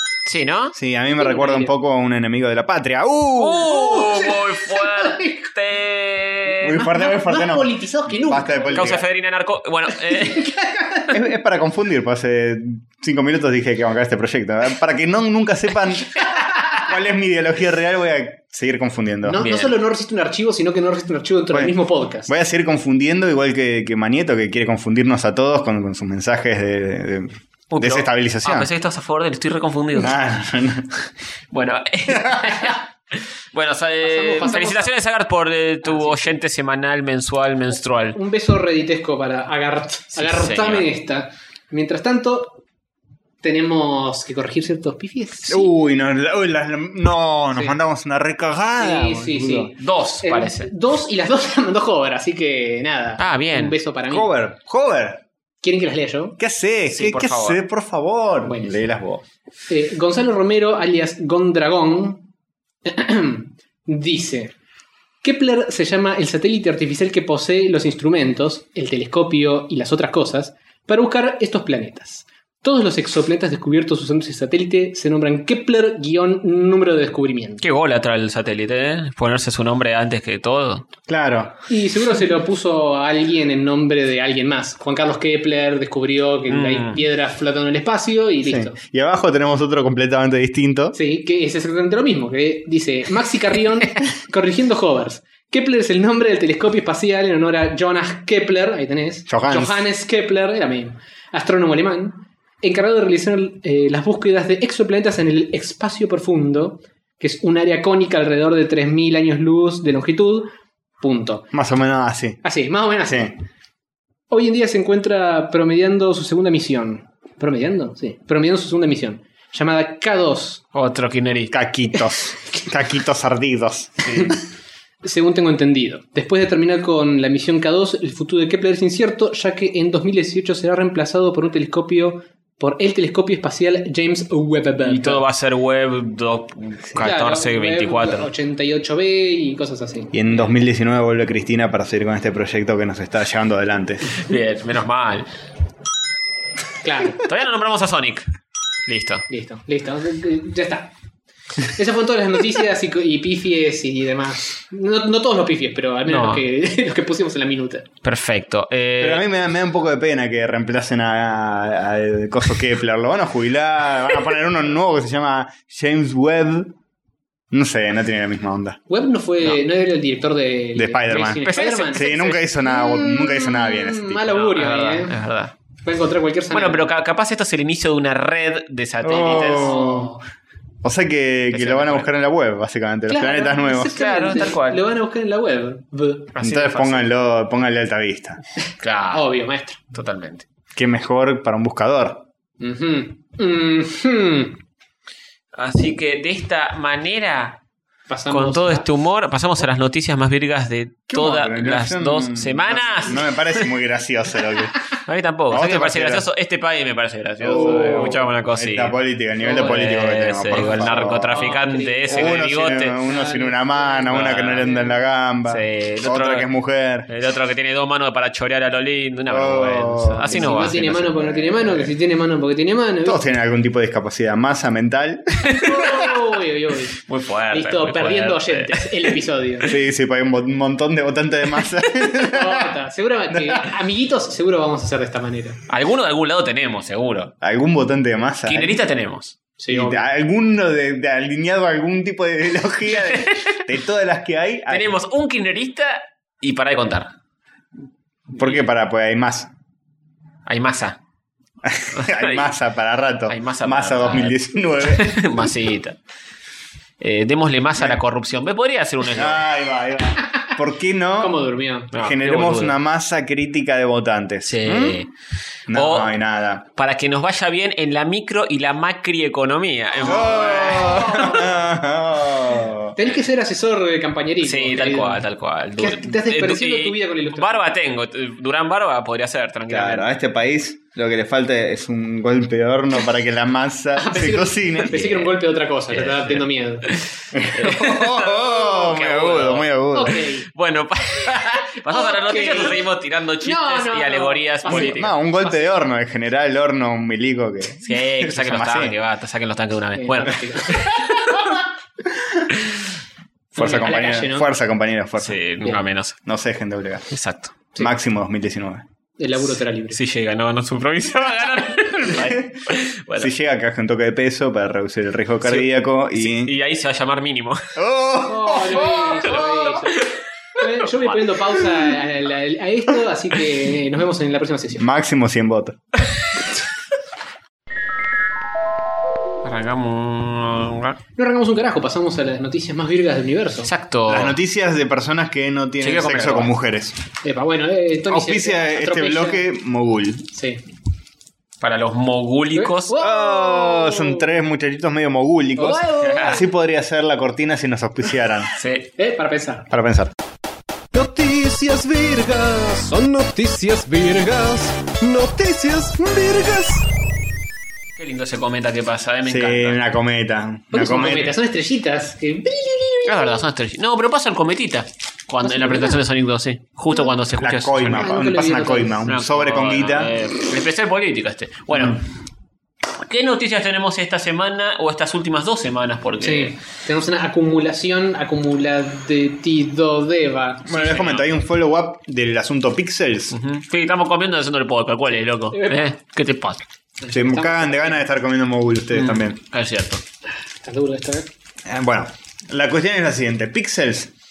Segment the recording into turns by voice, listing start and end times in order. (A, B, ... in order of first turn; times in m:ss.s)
0:00.2-0:00.8 A
0:00.7-0:03.7 B
0:01.2-0:01.7 C
0:03.4-0:06.8 A
0:03.6-0:05.5 C
0:06.6-0:09.0 B
0:06.7-0:09.0 C
0:08.7-0:10.6 A
0:10.2-0:11.0 C
0:11.1-0:19.4 B
0:19.2-0:22.3 C
0:19.4-0:19.7 A
0:22.3-0:28.7 B
0:27.7-0:30.2 A
0:29.9-0:31.0 B
0:31.5-0:38.2 A
0:32.1-0:32.7 B
0:34.0-0:34.9 C
0:35.8-0:36.3 C
0:38.1-0:42.6 C
0:40.2-0:40.9 A
0:43.4-0:45.7 C
0:45.5-0:49.7 B
0:48.8-0:54.3 C
0:49.8-0:50.7 A
0:53.2-0:53.8 A
0:54.1-0:55.2 B
0:55.6-0:56.4 C
0:56.4-0:59.2 B
0:56.9-0:57.6 A
0:58.4-0:58.8 C
0:59.7-1:02.2 C
1:02.8-1:04.5 C
1:05.2-1:17.6 C
1:17.6-1:20.9 A
1:21.1-1:21.5 B
1:21.7-1:28.8 C
1:26.5-1:27.0 A
1:28.4-1:31.0 B
1:30.9-1:51.4 C
1:39.3-1:39.8 B
1:51.5-1:52.4 B
1:52.4-1:53.3 C
1:53.1-1:53.3 B
1:54.3-2:00.6 C
2:00.7-2:01.5 A
2:01.5-2:04.4 B
2:05.0-2:15.2 C
2:14.8-2:18.3 A
2:17.0-2:20.4 C
2:20.1-2:24.1 B
2:24.1-2:25.3 A
2:26.8-2:27.2 C
2:27.2-2:28.3 A
2:28.9-2:29.2 A
2:29.3-2:30.9 C
2:31.6-2:37.9 C
2:36.1-2:36.4 A
2:38.0-2:39.2 A
2:39.0-2:46.7 B
2:47.5-2:48.8 B
2:48.9-2:55.2 C
2:50.7-2:54.4 B
2:51.3-2:52.4 A
2:54.4-2:55.5 A
2:55.8-2:56.8 C
2:56.5-2:59.9 A
2:59.0-3:00.1 B
2:59.1-3:00.2 C
3:00.8-3:04.0 B
3:01.5-3:02.1 A
3:03.1-3:06.3 C
3:03.9-3:04.8 A
3:06.4-3:07.1 A
3:06.4-3:08.4 B
3:08.8-3:09.2 A
3:09.1-3:09.8 C
3:09.9-3:10.4 A
3:10.8-3:12.2 B
3:12.6-3:14.6 C
3:15.5-3:17.6 A
3:18.1-3:18.8 C
3:18.3-3:23.7 A
3:21.1-3:24.8 B
3:25.0-3:28.9 A
3:25.5-3:26.2 B
3:27.4-3:37.1 B
3:27.5-3:28.1 C
3:29.4-3:29.8 C
3:29.5-3:33.0 A
3:30.5-3:35.0 C
3:34.0-3:34.7 A
3:35.5-3:36.5 A
3:37.1-3:41.1 A
3:39.3-3:41.9 B
3:40.3-3:43.2 C
3:43.0-3:45.6 B
3:45.5-3:45.8 A
3:45.5-3:47.0 C
3:47.0-3:49.2 A
3:47.5-3:49.7 C
3:49.6-3:52.7 B
3:52.2-3:55.6 C
3:53.3-3:53.6 B
3:55.7-3:57.3 A
3:57.4-3:58.8 B
3:58.4-3:59.4 A
3:59.6-4:00.0 C
3:59.7-4:05.0 B
4:03.1-4:03.4 A
4:04.7-4:07.1 A
4:08.3-4:09.5 B
4:10.4-4:11.0 A
4:11.6-4:15.2 B
4:11.9-4:12.5 A
4:13.3-4:16.0 A
4:17.0-4:19.4 A
4:19.1-4:21.4 B
4:21.2-4:21.9 C
4:21.9-4:25.0 B
4:21.9-4:22.7 A
4:24.4-4:25.1 A
4:25.7-4:26.6 B
4:25.7-4:26.1 A
4:26.8-4:31.4 A
4:30.0-4:32.9 B
4:30.1-4:31.5 C
4:33.0-4:35.2 C
4:34.4-4:40.1 A
4:35.8-4:37.6 C
4:39.7-4:45.2 B
4:44.0-4:46.9 C
4:45.9-4:55.1 A
4:47.3-4:50.2 B
4:49.9-4:50.5 C
4:51.8-4:52.9 C
4:53.4-4:55.6 C
4:54.7-4:59.0 B
4:57.8-5:01.4 A
5:00.0-5:01.3 C
5:02.1-5:02.5 B
5:03.5-5:04.5 C
5:03.5-5:05.4 B
5:05.2-5:06.2 A
5:06.2-5:07.1 B
5:07.1-5:07.6 A
5:07.8-5:08.8 B
5:09.2-5:10.0 C
5:09.9-5:13.3 A
5:12.1-5:12.6 B
5:13.2-5:16.5 B
5:15.4-5:17.8 A
5:17.8-5:19.4 B
5:18.2-5:20.0 C
5:18.9-5:21.3 A
5:20.6-5:24.8 C
5:24.8-5:25.8 B
5:29.4-5:31.0 A
5:31.2-5:33.7 C
5:33.6-5:34.4 A
5:34.1-5:37.0 B
5:35.8-5:36.5 A
5:37.2-5:39.4 C
5:38.1-5:40.3 B
5:40.3-5:40.6 C
5:41.6-5:42.9 A
5:42.5-5:44.3 C
5:43.0-5:48.5 B
5:45.6-5:46.5 C
5:46.0-5:46.4 A
5:48.6-5:48.9 A
5:49.0-5:49.7 C
5:49.7-5:50.1 B
5:50.9-5:56.8 D
5:58.0-5:59.8 A
5:59.2-6:01.3 B
6:00.7-6:03.4 C
6:03.0-6:08.1 A
6:05.4-6:06.0 C
6:07.3-6:10.1 B
6:07.9-6:09.0 C
6:09.0-6:12.0 A
6:13.0-6:16.5 A
6:16.2-6:20.8 C
6:20.6-6:23.4 B
6:20.7-6:21.2 A
6:23.3-6:26.6 A
6:25.5-6:25.8 C
6:27.0-6:28.0 C
6:27.1-6:29.4 B
6:28.9-6:30.0 A
6:30.6-6:31.3 C
6:31.6-6:34.1 B